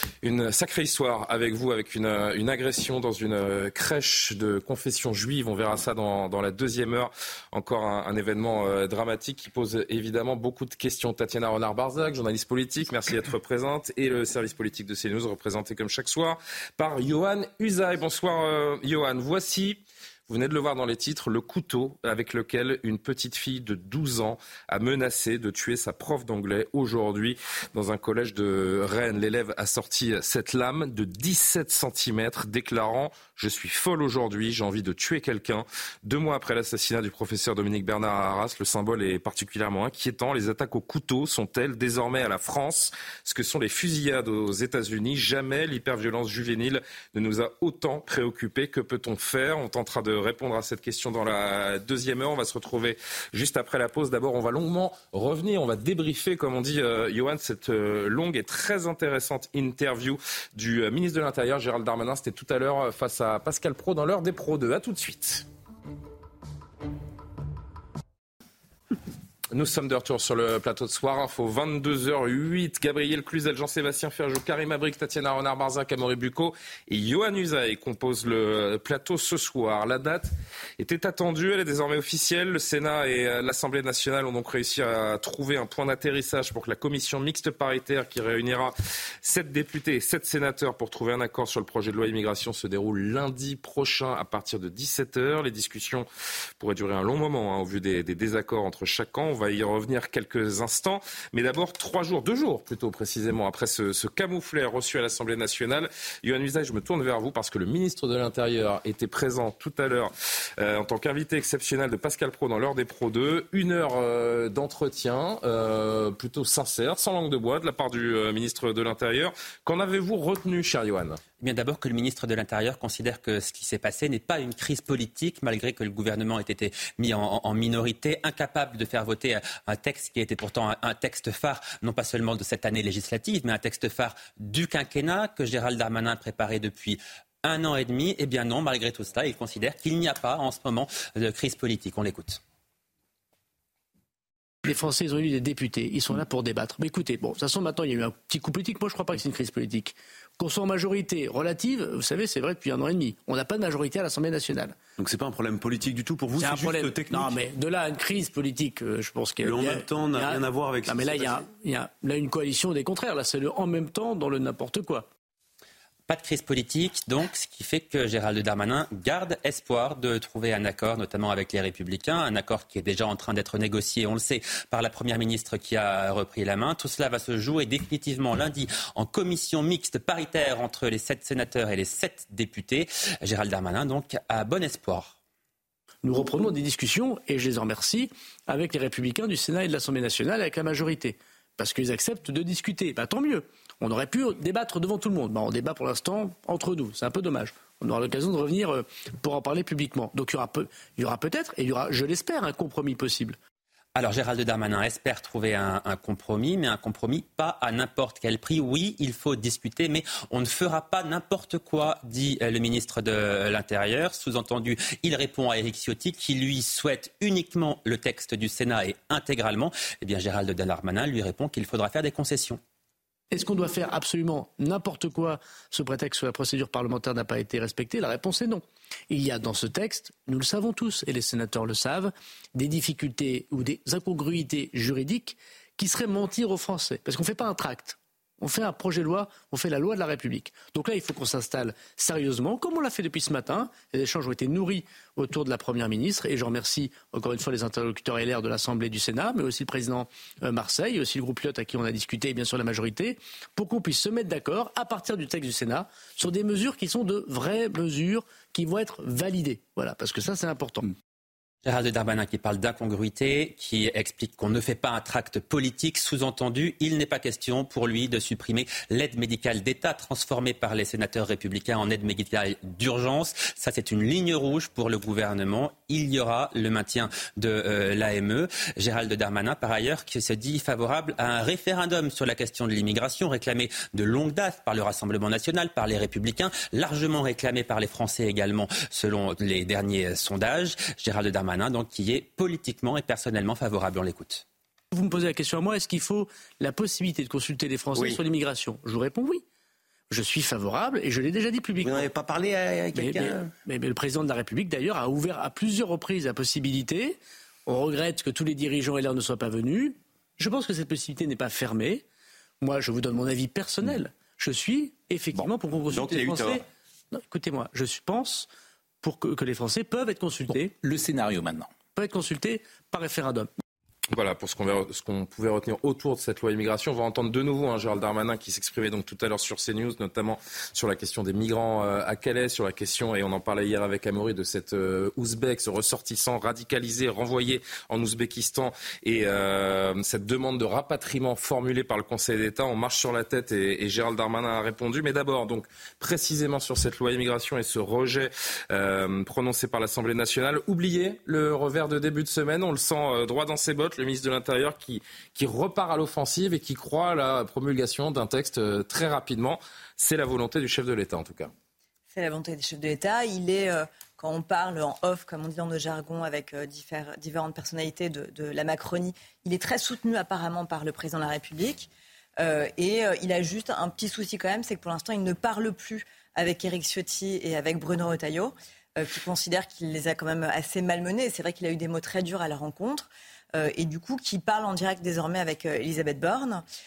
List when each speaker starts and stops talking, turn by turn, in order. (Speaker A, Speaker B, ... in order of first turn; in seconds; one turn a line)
Speaker A: 0.2-65.4
Speaker A: 69.5-96.0
Speaker A: 96.6-121.2
Speaker B: 121.4-142.4
Speaker C: 144.7-154.8
Speaker D: 155.0-157.4
Speaker C: 156.3-165.1
Speaker D: 159.4-161.5
Speaker B: 166.1-185.1
Speaker C: 186.0-203.4
Speaker B: 203.9-222.6
Speaker C: 223.3-260.9
Speaker B: 261.6-294.4
Speaker C: 294.9-299.4
Speaker D: 297.9-298.2
Speaker C: 300.1-302.0
Speaker E: 301.8-303.5
Speaker C: 302.9-312.0
Speaker C: 312.6-318.5
Speaker D: 315.3-316.6
Speaker C: 319.0-320.7
Speaker E: 320.7-321.7
Speaker C: 321.9-323.5
Speaker A: 324.1-361.5
Speaker F: 362.1-386.6